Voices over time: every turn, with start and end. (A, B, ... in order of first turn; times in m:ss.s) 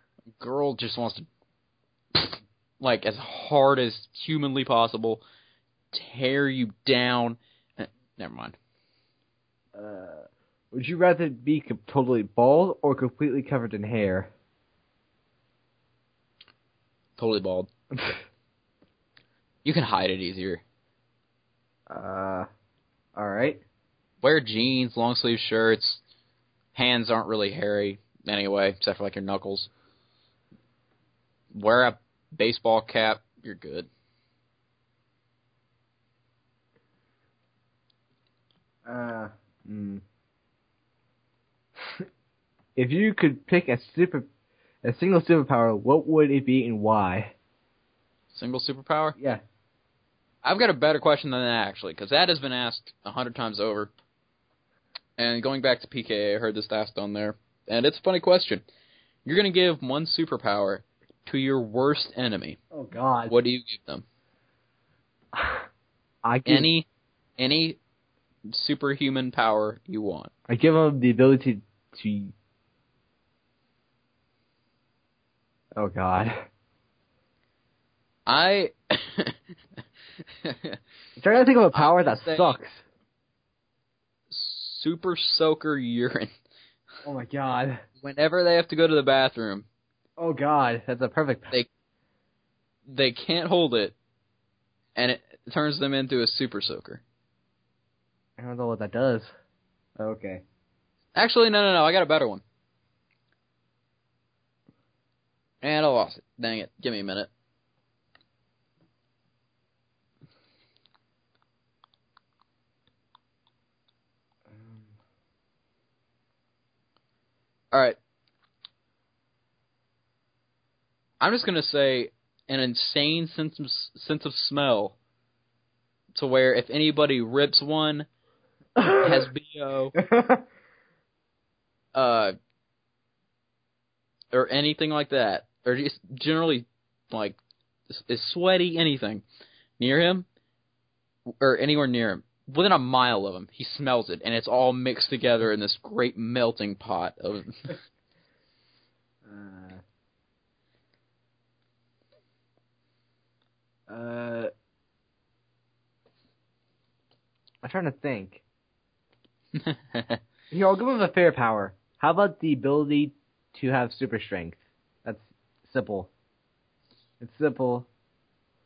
0:00.4-0:01.2 A
0:02.1-0:05.2 A
0:05.9-0:08.6 A
0:09.7-0:14.3 B
0:17.2-0:17.7 A
0:19.6-0:20.6 A
0:21.9-0:22.5 B
0:23.1-0:23.6 B
0:24.2-0:26.0 A
0:26.7-0:29.7 A
0:31.5-0:33.9 A
0:38.8-0:40.0 B
0:42.8-0:44.2 B
0:44.8-0:47.3 B
0:48.3-0:49.2 A
0:50.4-0:53.9 A
0:55.2-0:58.6 A
0:59.2-1:02.6 A
1:02.7-1:03.3 B
1:03.3-1:04.0 A
1:05.3-1:05.6 B
1:06.2-1:06.7 B
1:06.4-1:07.8 A
1:08.5-1:10.3 A
1:10.5-1:12.3 B
1:15.8-1:16.3 B
1:18.3-1:19.4 A
1:20.4-1:20.8 A
1:21.2-1:22.8 B
1:21.7-1:22.5 A
1:24.3-1:26.3 A
1:27.0-1:27.8 B
1:28.0-1:29.7 A
1:30.2-1:31.5 B
1:32.9-1:33.9 A
1:35.0-1:37.0 A
1:38.4-1:39.3 B
1:40.0-1:40.4 B
1:41.1-1:42.4 A
1:45.6-1:47.3 A
1:54.6-1:54.8 B
1:57.7-1:58.0 A
2:01.2-2:05.0 A
2:06.1-2:08.1 A
2:08.8-2:09.3 B
2:08.9-2:09.9 A
2:10.0-2:10.4 B
2:11.9-2:12.3 A
2:14.3-2:17.4 A
2:17.9-2:19.2 A
2:19.8-2:20.2 A
2:21.4-2:27.7 A
2:29.2-2:29.8 B
2:33.9-2:34.5 B
2:37.6-2:38.4 B
2:39.6-2:40.2 A
2:40.5-2:46.1 B
2:47.2-2:47.9 B